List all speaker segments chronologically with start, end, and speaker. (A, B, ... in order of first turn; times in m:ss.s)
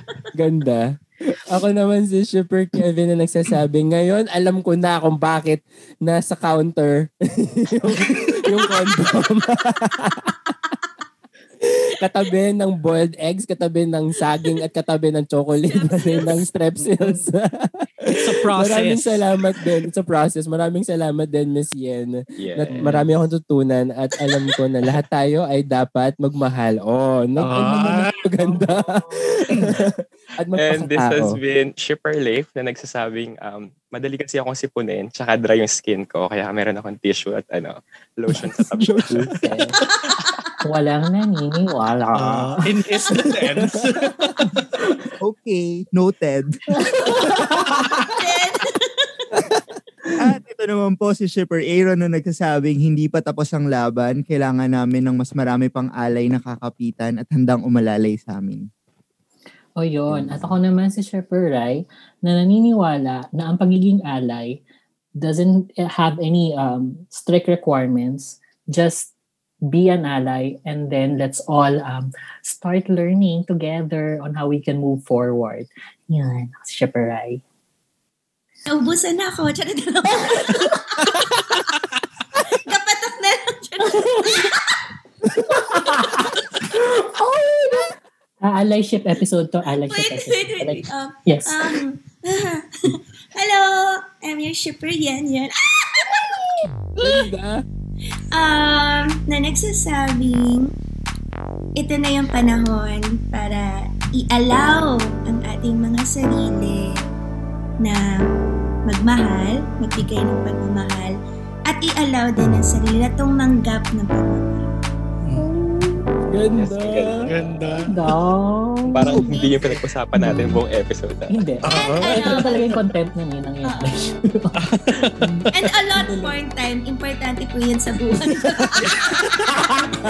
0:00.3-0:10.3 A
0:08.3-0:09.1 B
0:11.6-0:31.4 A
0:15.7-0:16.4 B
0:16.8-0:17.2 C
0:18.1-0:19.2 C
0:22.4-0:23.0 D
0:22.7-0:23.1 C
0:27.4-0:28.3 C
0:29.5-0:29.8 C
0:30.5-0:39.3 D
0:38.7-0:39.3 A
0:39.3-0:39.8 E
0:40.6-0:42.6 E
0:42.1-0:44.6 C
0:43.2-0:43.8 A
0:45.2-0:46.6 F
0:46.7-0:47.7 E
0:47.4-0:48.1 C
0:48.0-0:49.2 B
0:50.2-0:58.7 F
0:59.8-1:04.6 E
1:05.2-1:09.1 E
1:09.7-1:17.4 E
1:18.7-1:21.8 B
1:22.5-1:24.7 B
1:23.8-1:24.5 E
1:25.2-1:25.8 A
1:25.5-1:31.8 E
1:29.8-1:36.5 B
1:37.0-1:37.6 A
1:38.3-1:40.7 B
1:41.8-1:47.1 B
1:47.8-1:48.3 B
1:48.8-1:54.4 B
1:55.2-1:55.5 C
1:55.4-1:56.1 E
1:56.3-1:57.3 A
1:56.5-1:57.8 D
1:57.2-1:58.0 C
1:57.9-1:59.4 E
1:58.8-2:01.4 D
1:59.0-1:59.6 B
2:01.3-2:04.5 E
2:01.6-2:02.3 C
2:01.7-2:02.8 B
2:03.6-2:04.2 B
2:04.6-2:05.2 C
2:05.2-2:05.5 E
2:05.5-2:09.3 B
2:06.0-2:06.3 A
2:08.3-2:09.0 A
2:09.1-2:09.7 C
2:09.5-2:09.9 E